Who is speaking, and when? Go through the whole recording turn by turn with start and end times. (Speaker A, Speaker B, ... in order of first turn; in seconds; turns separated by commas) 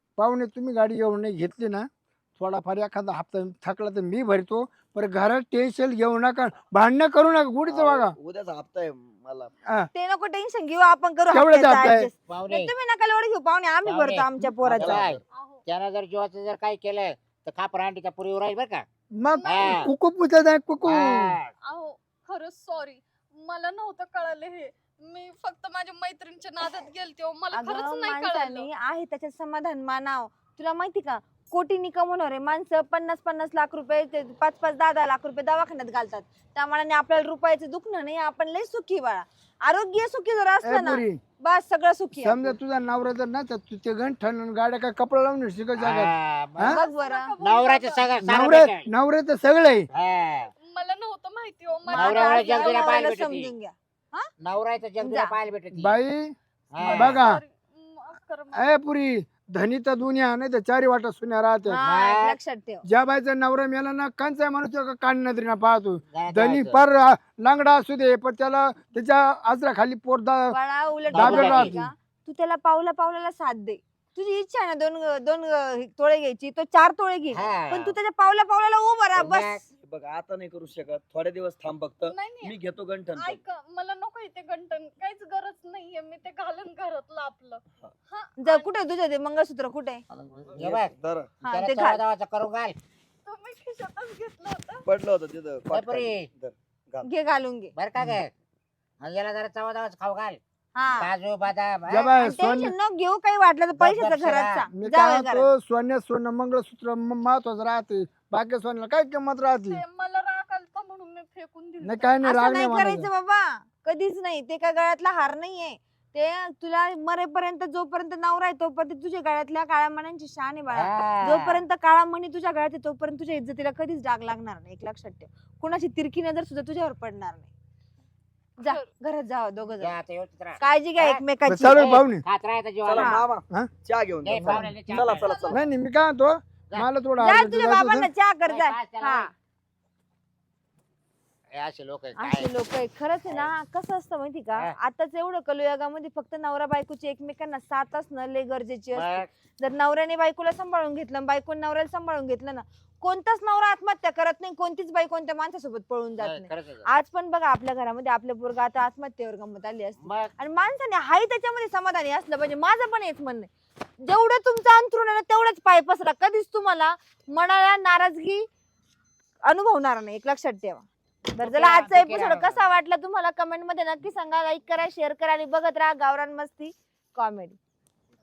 Speaker A: 0.2-8.2, Speaker B: 7.7-9.5, Speaker C: 9.9-15.0, Speaker A: 11.3-12.1, Speaker D: 12.3-12.7, Speaker D: 13.8-18.9, Speaker B: 14.8-15.2, Speaker E: 15.3-15.6, Speaker A: 19.1-21.4, Speaker E: 19.4-19.9, Speaker D: 19.5-19.9, Speaker D: 20.8-21.5, Speaker E: 21.6-28.7, Speaker C: 27.5-42.6, Speaker A: 40.6-41.2, Speaker A: 42.1-46.8, Speaker D: 45.8-46.8, Speaker C: 46.7-47.3, Speaker E: 46.8-48.2, Speaker D: 47.4-48.9, Speaker A: 48.2-49.9, Speaker D: 49.9-50.5, Speaker E: 50.6-52.9, Speaker C: 51.9-54.3, Speaker D: 51.9-53.5, Speaker D: 54.4-55.9, Speaker C: 55.0-55.4, Speaker A: 55.8-57.4, Speaker D: 56.7-57.2, Speaker E: 56.8-58.7, Speaker A: 58.5-61.8, Speaker C: 61.7-62.8, Speaker D: 61.8-62.4, Speaker A: 62.9-70.6, Speaker D: 66.1-66.8, Speaker C: 70.5-79.6, Speaker A: 71.1-71.9, Speaker D: 71.1-71.8, Speaker D: 77.3-78.0, Speaker D: 79.2-79.7, Speaker B: 79.8-83.4, Speaker E: 82.1-82.5, Speaker E: 83.2-88.7, Speaker C: 88.4-90.0, Speaker D: 90.1-90.9, Speaker B: 90.5-91.4, Speaker C: 91.4-92.0, Speaker D: 91.5-92.8, Speaker E: 93.3-94.8, Speaker B: 94.9-97.1, Speaker D: 95.7-96.3, Speaker C: 97.1-97.7, Speaker D: 97.7-98.3, Speaker D: 99.0-100.4, Speaker C: 100.8-101.1, Speaker D: 101.0-102.1, Speaker A: 101.9-102.7, Speaker C: 102.2-105.5, Speaker D: 103.8-104.7, Speaker A: 104.7-109.8, Speaker E: 109.6-112.1, Speaker A: 111.8-113.1, Speaker C: 112.2-127.5, Speaker D: 120.7-121.6, Speaker C: 128.6-130.0, Speaker D: 129.8-133.1, Speaker C: 130.6-131.8, Speaker A: 131.4-132.2, Speaker B: 132.8-135.6, Speaker C: 133.0-133.2, Speaker D: 134.2-135.5, Speaker A: 134.4-134.8, Speaker E: 135.1-135.6, Speaker A: 135.5-138.1, Speaker C: 137.2-139.3, Speaker D: 138.4-139.3, Speaker D: 141.6-142.5, Speaker C: 142.2-163.5, Speaker D: 143.3-143.5, Speaker D: 148.9-149.3, Speaker D: 156.2-156.9, Speaker D: 160.0-160.3, Speaker C: 164.0-168.5, Speaker C: 169.5-177.6, Speaker D: 171.4-172.6